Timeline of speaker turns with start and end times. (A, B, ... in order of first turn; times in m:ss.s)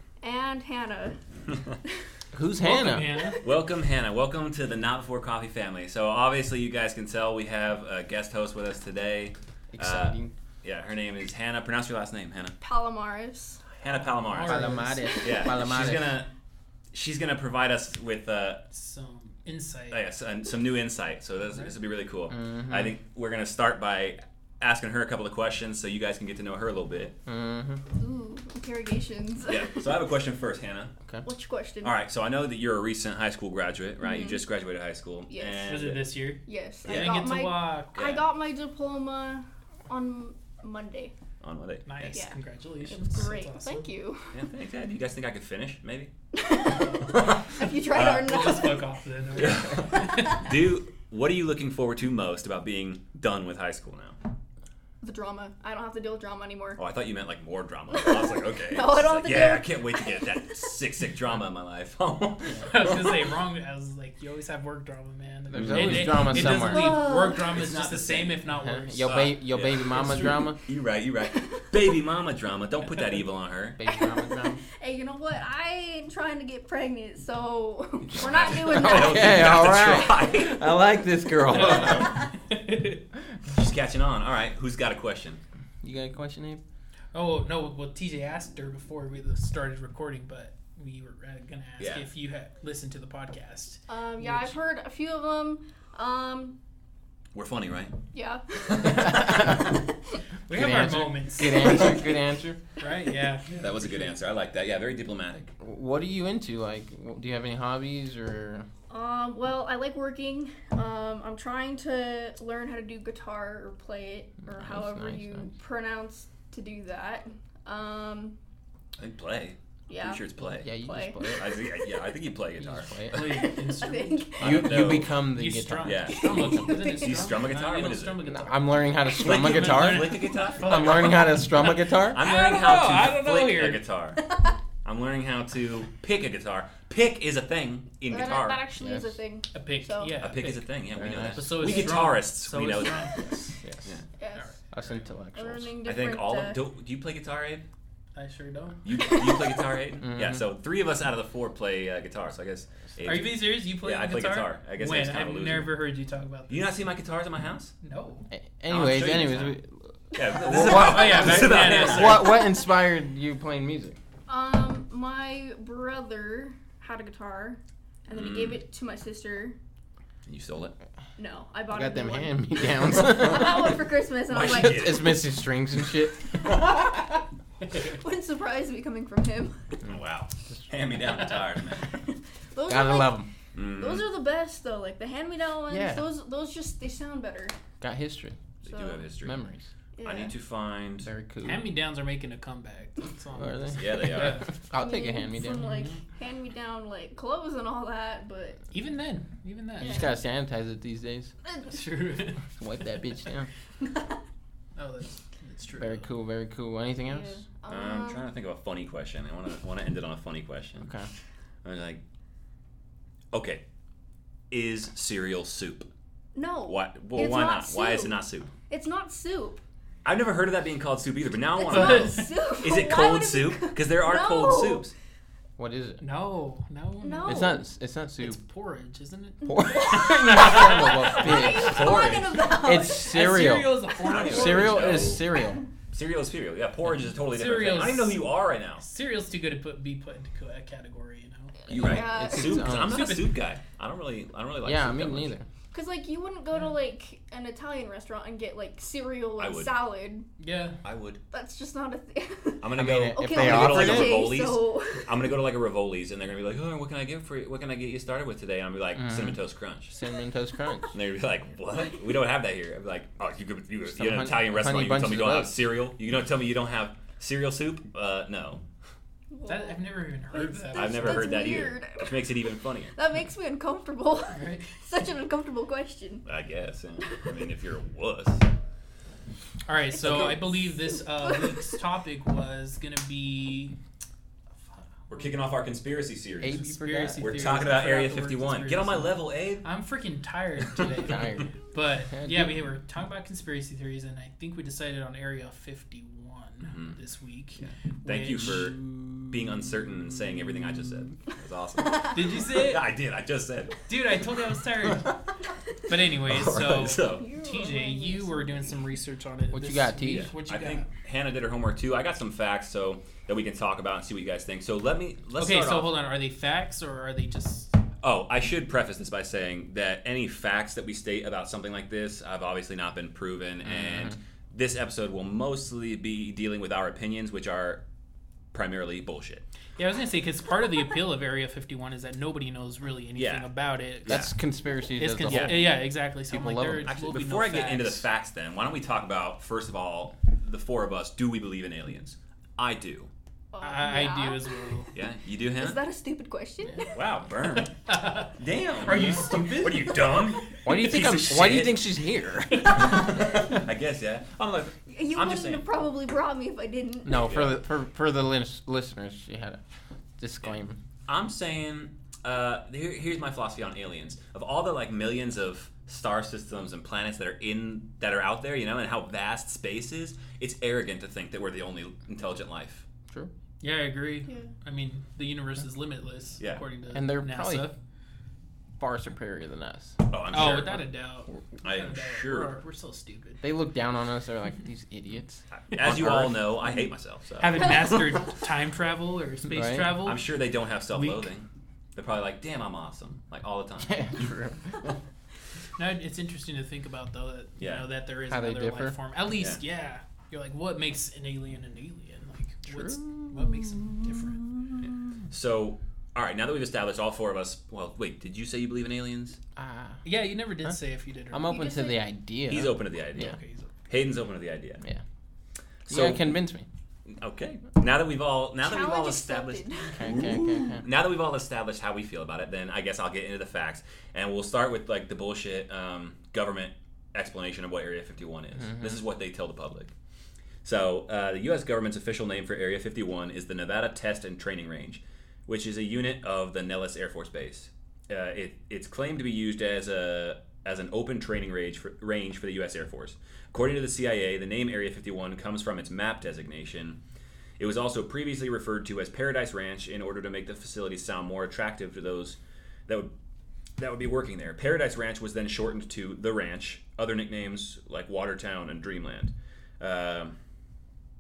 0:00.2-0:01.2 A
0:02.3-0:03.1 B
0:02.6-0:03.4 C
0:03.1-0:03.4 A
0:03.4-0:12.6 D
0:09.7-0:10.3 B
0:12.6-0:13.6 A
0:13.8-0:16.3 D
0:13.8-0:15.2 C
0:14.4-0:16.2 B
0:15.0-0:15.5 A
0:16.9-0:18.6 D
0:18.7-0:20.0 C
0:19.9-0:27.1 D
0:21.4-0:21.7 C
0:22.3-0:22.9 B
0:27.2-0:27.8 B
0:28.0-0:29.8 A
0:29.4-0:30.9 D
0:31.2-0:32.0 A
0:31.8-0:36.1 D
0:34.0-0:34.4 A
0:35.3-0:35.8 A
0:35.6-0:38.0 C
0:36.4-0:41.1 A
0:36.8-0:37.3 D
0:37.9-0:38.3 D
0:41.4-0:42.2 D
0:41.8-0:43.8 C
0:42.1-0:42.4 A
0:42.9-0:44.4 A
0:44.3-0:46.1 D
0:46.3-0:48.8 A
0:46.6-0:47.4 C
0:47.1-0:48.5 D
0:48.0-0:50.5 C
0:49.3-0:54.2 D
0:55.0-0:56.8 A
0:56.8-1:03.2 D
0:57.9-1:00.6 A
1:02.6-1:10.4 C
1:05.5-1:07.0 B
1:05.5-1:06.2 D
1:06.3-1:07.5 A
1:07.4-1:08.4 D
1:08.6-1:10.6 B
1:09.0-1:13.8 D
1:11.2-1:11.8 A
1:13.8-1:14.6 B
1:14.7-1:19.7 A
1:18.0-1:20.7 D
1:18.5-1:22.1 B
1:21.5-1:23.0 C
1:21.5-1:22.1 D
1:22.0-1:22.2 A
1:23.5-1:25.4 D
1:25.8-1:26.6 B
1:27.1-1:34.6 C
1:31.8-1:32.0 D
1:33.9-1:36.6 A
1:37.3-1:37.9 D
1:38.1-1:39.3 A
1:38.8-1:39.6 D
1:39.1-1:39.6 B
1:40.5-1:42.0 C
1:40.5-1:42.6 B
1:41.5-1:41.9 A
1:42.8-1:43.5 C
1:43.5-1:45.5 D
1:45.6-1:48.6 B
1:48.9-1:58.4 A
1:54.6-1:55.4 B
1:59.0-2:00.7 D
1:59.9-2:01.4 A
2:00.6-2:01.6 B
2:01.4-2:03.5 D
2:02.6-2:03.4 B
2:03.1-2:13.8 C
2:03.1-2:04.6 A
2:04.4-2:05.1 D
2:04.4-2:06.7 B
2:05.8-2:08.3 D
2:06.2-2:07.3 A
2:08.3-2:12.2 B
2:09.1-2:11.2 D
2:11.9-2:14.3 D
2:12.2-2:12.8 A
2:14.2-2:14.6 A
2:14.8-2:18.6 D
2:18.1-2:20.2 A
2:18.8-2:19.2 B
2:19.5-2:20.7 C
2:20.2-2:23.2 D
2:20.9-2:21.6 B
2:21.3-2:23.5 C
2:23.6-2:23.9 B
2:24.2-2:24.5 A
2:24.3-2:25.0 C
2:24.7-2:25.7 B
2:25.3-2:26.6 A
2:25.8-2:27.6 D
2:28.1-2:28.8 C
2:28.8-2:35.7 D
2:29.0-2:29.6 A
2:30.0-2:30.4 B
2:33.0-2:36.7 C
2:36.5-2:37.7 D
2:37.8-2:38.2 C
2:38.3-2:44.0 B
2:38.7-2:39.5 D
2:40.1-2:42.4 D
2:40.5-2:42.4 C
2:44.3-2:49.6 A
2:48.1-2:48.6 D
2:50.2-2:50.7 D
2:51.2-2:54.9 A
2:51.7-2:53.8 B
2:54.3-2:55.3 D
2:54.4-2:56.5 B
2:57.8-2:59.7 A
2:59.8-3:01.9 D
3:01.8-3:07.5 A
3:02.6-3:03.3 B
3:03.5-3:04.0 D
3:05.7-3:06.1 B
3:07.8-3:08.4 B
3:08.6-3:09.4 D
3:08.6-3:09.0 A
3:09.2-3:09.6 B
3:10.0-3:10.3 A
3:10.0-3:11.1 D
3:11.0-3:11.7 B
3:11.4-3:14.5 C
3:13.4-3:15.7 B
3:13.8-3:14.5 D
3:14.7-3:18.6 A
3:15.6-3:16.0 C
3:18.7-3:20.1 C
3:19.8-3:21.3 B
3:19.8-3:20.1 A
3:21.6-3:22.5 C
3:22.6-3:23.5 B
3:24.8-3:26.1 C
3:25.8-3:27.4 B
3:27.0-3:28.3 A
3:27.7-3:30.9 D
3:30.8-3:31.1 B
3:31.6-3:32.0 D
3:33.3-3:33.6 D
3:34.5-3:35.9 D
3:36.3-3:39.6 A
3:36.7-3:38.5 D
3:40.0-3:44.9 D
3:41.6-3:44.8 A
3:41.6-3:42.4 C
3:45.6-3:46.0 B
3:46.0-3:47.5 C
3:47.0-3:47.6 A
3:47.3-3:48.4 B
3:48.2-3:51.6 C
3:49.4-3:53.2 A
3:49.5-3:55.6 B
3:51.2-3:52.4 D
3:52.9-3:55.2 C
3:54.0-3:55.2 D
3:55.9-3:58.8 D
3:57.2-3:58.3 C
3:58.8-4:01.6 C
4:01.6-4:02.6 A
4:01.7-4:05.3 D
4:01.7-4:03.1 B
4:02.7-4:03.5 C
4:04.6-4:05.4 B
4:05.7-4:10.3 A
4:09.4-4:09.7 D
4:10.4-4:10.8 C
4:10.8-4:11.2 D
4:11.3-4:15.1 A
4:12.6-4:19.9 D
4:12.7-4:14.3 B
4:19.0-4:19.4 B
4:19.9-4:20.9 B
4:20.9-4:28.6 D
4:23.9-4:25.6 B
4:29.3-4:32.1 A
4:29.5-4:31.5 C
4:30.7-4:32.9 D
4:32.9-4:36.3 A
4:34.3-4:34.7 C
4:36.2-4:38.4 D
4:39.6-4:43.7 C
4:40.0-4:41.6 A
4:45.1-4:49.6 D
4:46.4-4:47.5 B
4:46.6-4:59.6 C
4:50.9-4:51.5 B
4:52.1-4:52.5 B
4:56.6-4:57.0 D
4:57.6-4:58.8 D
4:59.3-5:03.8 D
5:02.1-5:02.9 C
5:03.9-5:05.2 C
5:04.8-5:05.1 D
5:05.9-5:10.9 C
5:06.2-5:07.2 D
5:07.1-5:08.8 A
5:09.5-5:10.3 B
5:10.1-5:16.0 D
5:15.4-5:17.8 C
5:18.0-5:27.8 D
5:23.6-5:24.2 B
5:28.5-5:29.4 D
5:29.8-5:34.3 C
5:33.2-5:33.5 D
5:34.0-5:34.3 D
5:34.0-5:36.9 B
5:35.0-5:38.0 C
5:35.3-5:35.7 D
5:36.8-5:43.1 D
5:43.5-5:44.8 A
5:43.6-5:44.9 C
5:44.9-5:45.8 D
5:45.6-5:46.9 A
5:46.8-5:51.8 D
5:47.8-5:50.9 C
5:50.6-5:53.0 B
5:52.6-5:55.6 D
5:54.9-5:57.3 A
5:57.0-5:59.6 B
5:57.1-5:57.6 D
6:00.2-6:00.8 B
6:00.4-6:12.9 D
6:13.6-6:17.7 C
6:14.2-6:14.5 A
6:16.9-6:17.7 B
6:18.8-6:20.0 B
6:20.1-6:20.8 D
6:20.3-6:23.4 C
6:21.6-6:22.6 D
6:23.4-6:26.3 B
6:25.5-6:27.7 D
6:25.9-6:26.3 C
6:27.4-6:30.3 C
6:29.5-6:30.0 B
6:30.0-6:35.0 D
6:30.9-6:31.3 C
6:33.8-6:34.8 B
6:35.8-6:44.4 C
6:37.6-6:37.8 D
6:38.3-6:39.0 B
6:39.3-6:39.6 D
6:42.7-6:43.2 B
6:44.9-6:49.4 D
6:49.6-6:50.0 B
6:50.0-6:51.6 C
6:51.3-6:53.3 B
6:51.4-6:52.0 A
6:52.5-6:53.4 D
6:53.1-6:53.7 C
6:53.9-6:54.8 D
6:55.8-6:56.6 B
6:55.9-6:56.3 D
6:57.1-7:09.9 D
6:58.6-7:00.1 A
7:00.0-7:00.8 B
7:10.6-7:27.0 D
7:27.6-7:33.1 D
7:33.8-7:40.3 D